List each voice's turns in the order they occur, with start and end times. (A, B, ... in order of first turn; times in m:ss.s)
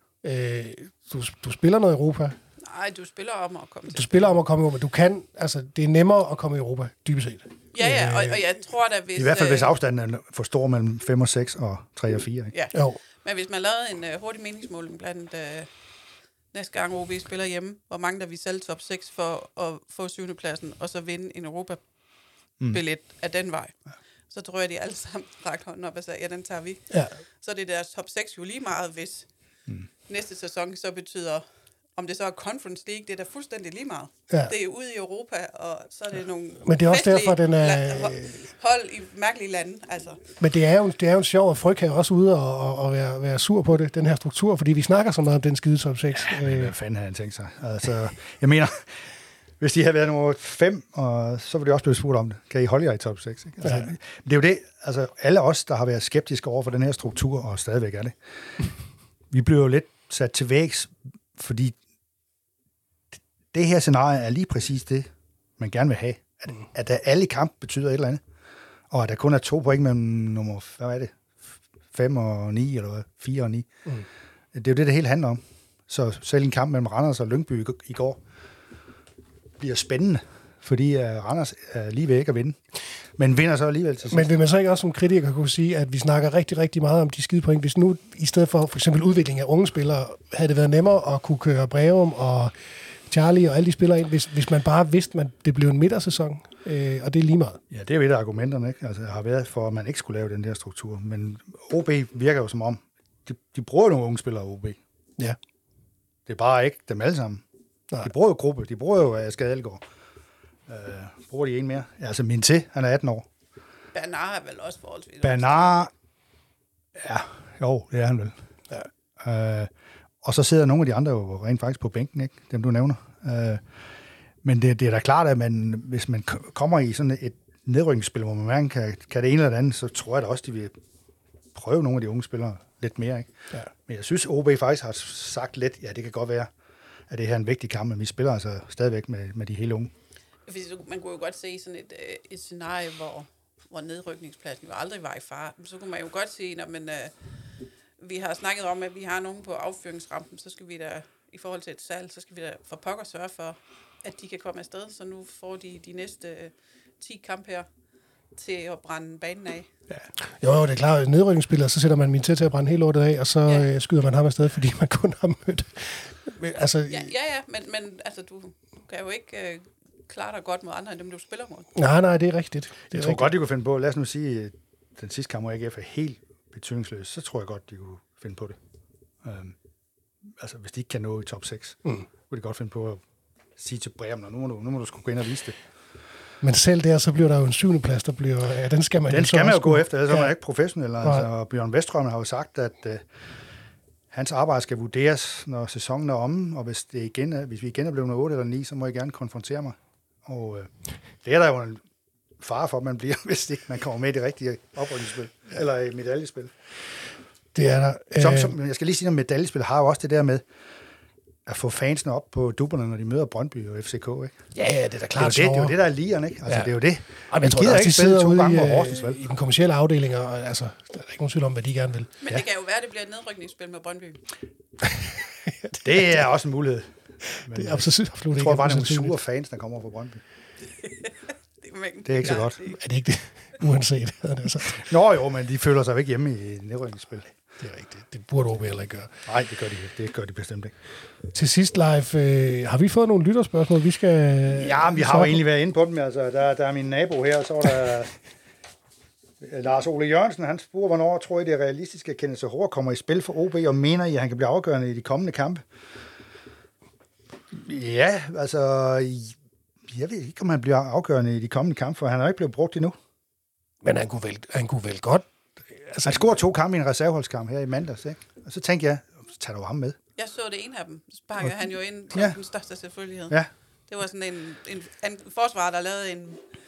0:00.2-0:02.4 A
0:02.6-0:04.4 B
0:03.9-0:08.4 A
0:07.7-0:09.7 B
0:09.2-0:12.6 C
0:12.5-0:15.7 B
0:12.7-0:13.0 A
0:16.5-0:21.8 B
0:22.6-0:23.8 B
0:24.3-0:29.3 B
0:26.9-0:27.2 A
0:30.1-0:40.2 B
0:36.6-0:38.5 A
0:40.4-0:46.7 A
0:46.3-0:58.7 C
0:59.3-1:01.8 C
1:03.1-1:08.2 C
1:08.9-1:13.7 C
1:14.5-1:18.2 C
1:19.6-1:22.6 C
1:23.2-1:24.3 C
1:24.1-1:37.6 A
1:37.7-1:44.8 C
1:46.3-1:47.4 C
1:48.0-1:49.8 C
1:50.7-1:53.3 C
1:53.9-1:55.9 B
1:55.2-1:55.9 C
1:57.0-1:58.4 C
1:59.2-1:59.7 C
2:00.2-2:03.6 C
2:04.4-2:10.7 C
2:11.5-2:16.5 C
2:17.1-2:19.9 C
2:20.5-2:27.1 B
2:28.0-2:37.7 B
2:38.4-2:39.7 B
2:40.4-2:47.1 A
2:46.9-2:51.7 B
2:51.8-2:53.3 A
2:52.9-2:58.6 C
2:59.2-2:59.6 C
3:00.2-3:03.0 C
3:03.6-3:05.6 C
3:06.4-3:10.3 A
3:09.1-3:13.1 C
3:11.0-3:11.3 A
3:14.1-3:20.7 C
3:21.2-3:21.8 C
3:22.4-3:26.5 C
3:27.5-3:28.5 A
3:28.2-3:30.5 C
3:31.5-3:34.4 C
3:34.6-3:35.8 A
3:35.2-3:39.2 C
3:36.5-3:36.8 A
3:37.3-3:42.1 A
3:42.2-3:44.2 B
3:45.0-3:45.8 A
3:45.8-3:50.2 C
3:47.3-3:49.2 A
3:50.8-3:52.8 B
3:52.0-3:52.6 C
3:52.8-3:54.9 A
3:54.8-3:57.4 C
3:57.6-3:59.1 A
3:59.2-4:00.7 C
4:01.3-4:05.4 A
4:04.5-4:08.2 C
4:09.4-4:15.6 C
4:17.5-4:23.0 C
4:23.8-4:26.3 A
4:26.1-4:30.0 C
4:30.2-4:36.4 B
4:32.1-4:32.4 C